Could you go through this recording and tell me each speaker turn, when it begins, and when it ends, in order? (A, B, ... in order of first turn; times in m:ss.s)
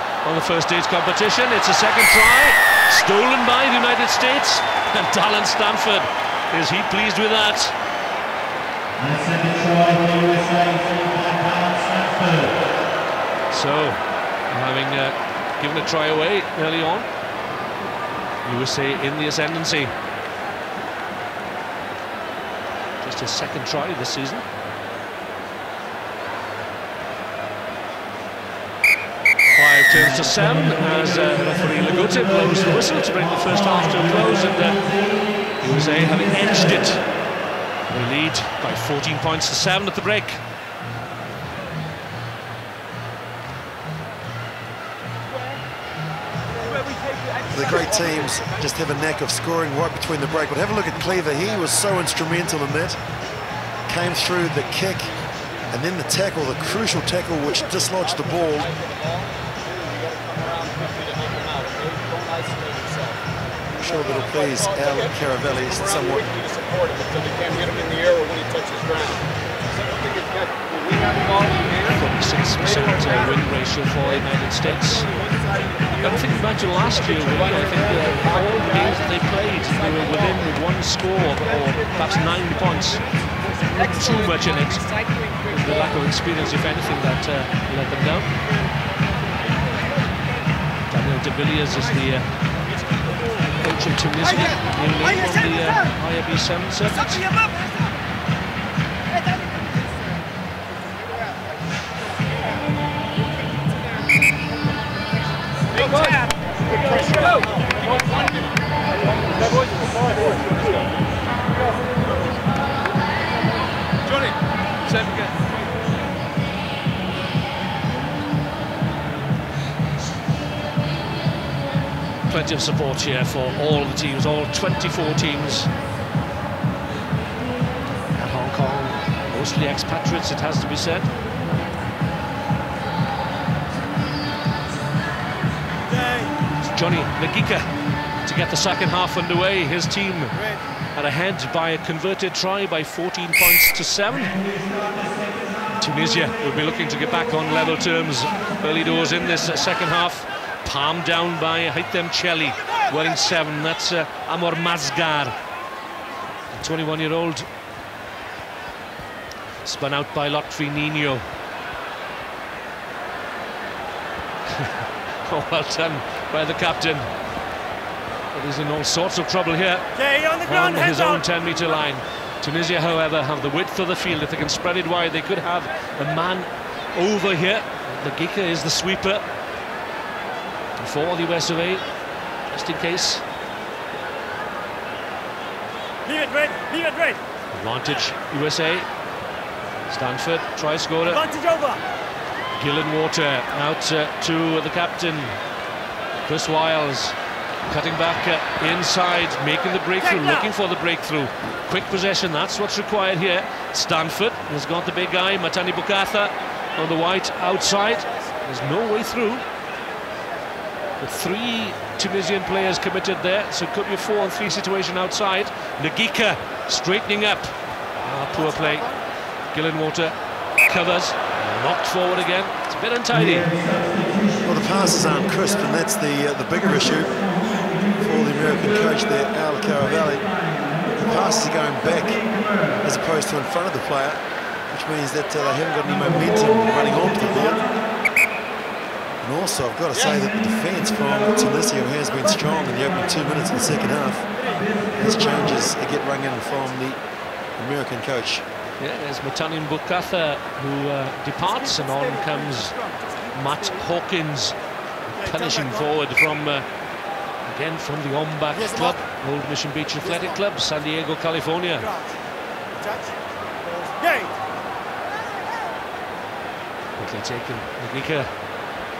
0:00.2-0:07.8 A
0:13.5-0:17.1 A
0:18.4-0:19.9 A
0:23.0-0:24.4 A
0:29.5-0:34.8 A
0:35.6-0:37.0 A
0:37.9-0:40.4 A
0:47.4-0:53.0 B
0:53.9-0:55.1 B
0:55.7-0:58.8 B
0:58.8-1:03.2 C
1:03.8-1:06.4 B
1:06.3-1:11.8 C
1:11.7-1:15.1 A
1:16.0-1:28.3 A
1:30.9-1:32.3 A
1:33.6-1:37.4 A
1:47.0-1:47.3 D
1:54.1-1:54.3 A
1:54.9-1:55.3 A
2:02.3-2:05.7 A
2:08.1-2:11.1 A
2:15.9-2:16.3 D
2:16.6-2:17.6 A
2:18.2-2:20.4 A
2:20.9-2:24.4 A
2:25.8-2:35.4 A
2:36.5-2:37.5 A
2:39.6-2:41.2 A
2:44.4-2:47.1 A
2:48.3-2:59.2 A
2:50.0-2:50.4 D
3:00.8-3:01.8 A
3:02.5-3:03.2 A
3:06.0-3:07.2 D
3:07.5-3:08.9 A
3:09.9-3:11.3 A
3:11.2-3:11.8 D
3:12.5-3:15.4 A
3:16.2-3:29.4 A
3:31.0-3:43.6 A
3:44.4-3:47.2 B
3:47.8-3:52.2 B
3:52.8-3:54.2 B
3:54.7-3:57.6 B
3:59.2-4:04.3 B
4:04.9-4:07.0 B
4:07.6-4:08.4 B
4:08.8-4:12.8 A
4:11.7-4:13.5 D
4:13.3-4:14.6 A
4:15.1-4:16.6 A
4:15.3-4:15.7 D
4:17.4-4:21.9 A
4:22.8-4:24.4 D
4:27.0-4:28.3 A